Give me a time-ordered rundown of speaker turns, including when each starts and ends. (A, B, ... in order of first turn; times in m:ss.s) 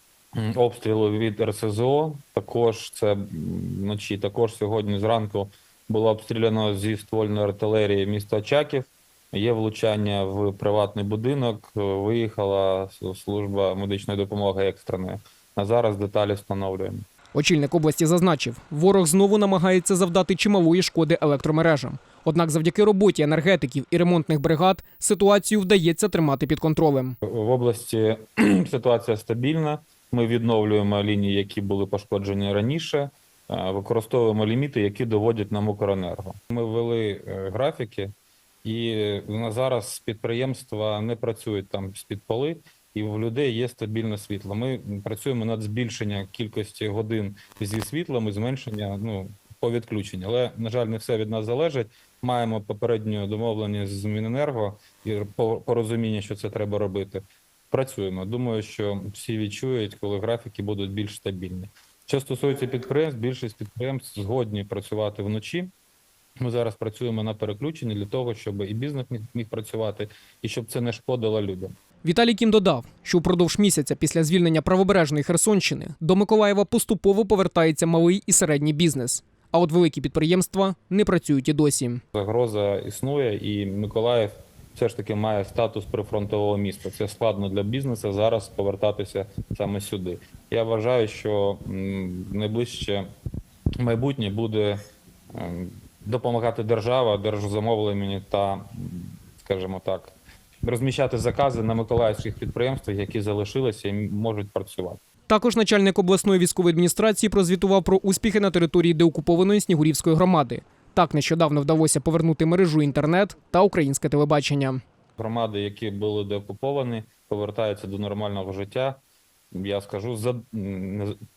0:00.4-0:17.1 A
0:17.3-0:27.2 B
0:27.2-0:38.1 A
0:38.6-1:05.7 A
1:06.4-1:11.8 A
1:12.0-1:22.0 B
1:22.1-1:33.1 A
1:33.8-1:34.8 A
1:35.3-1:45.0 A
1:45.3-1:54.8 B
1:55.2-1:59.0 A
1:59.5-2:01.2 A